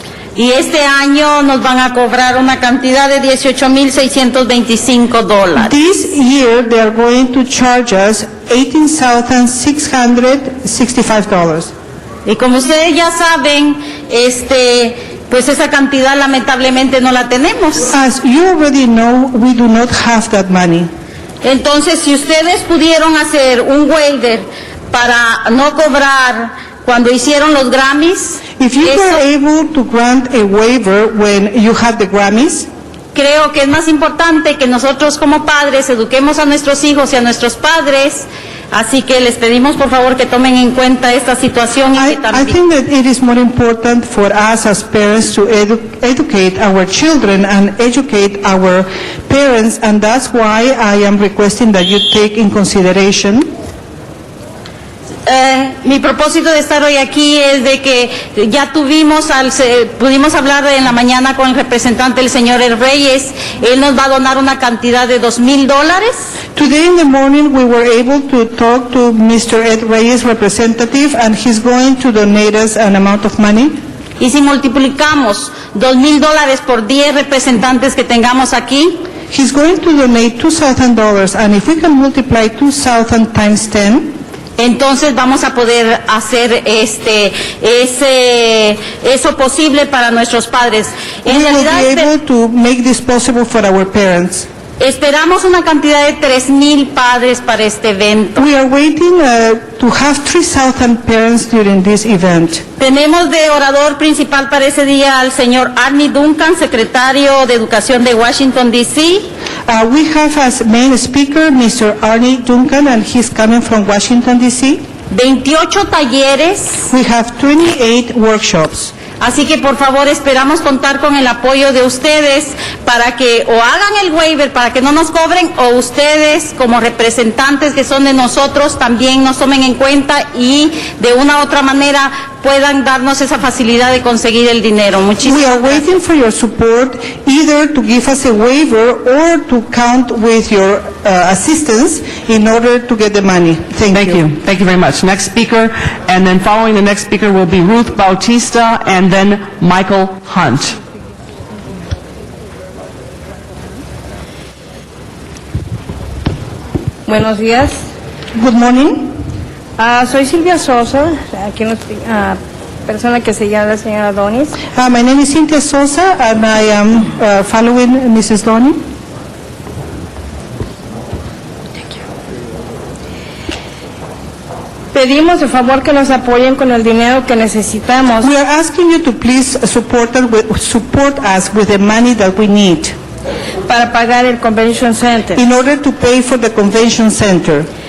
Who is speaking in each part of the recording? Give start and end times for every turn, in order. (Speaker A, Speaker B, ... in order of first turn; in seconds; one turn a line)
Speaker A: 0.4-5.7
Speaker B: 5.6-11.7
Speaker A: 12.2-17.9
Speaker B: 17.9-20.9
Speaker A: 21.4-29.2
Speaker B: 28.6-32.7
Speaker A: 33.1-42.5
Speaker B: 42.0-53.5
Speaker A: 55.3-66.3
Speaker B: 66.6-73.8
Speaker A: 74.2-79.0
Speaker B: 79.3-84.2
Speaker A: 84.6-92.1
Speaker B: 91.2-94.5
Speaker A: 94.8-98.4
Speaker B: 98.4-102.6
Speaker A: 102.8-109.3
Speaker B: 109.7-114.8
Speaker A: 115.1-116.9
Speaker B: 116.9-118.9
Speaker A: 119.2-135.8
Speaker B: 135.2-144.2
Speaker C: 143.9-150.8
Speaker D: 157.1-157.8
Speaker B: 158.3-159.2
Speaker D: 159.8-164.6
Speaker B: 164.8-168.8
Speaker D: 174.9-178.3
Speaker B: 178.2-182.9
Speaker D: 183.7-185.4
Speaker B: 185.3-187.7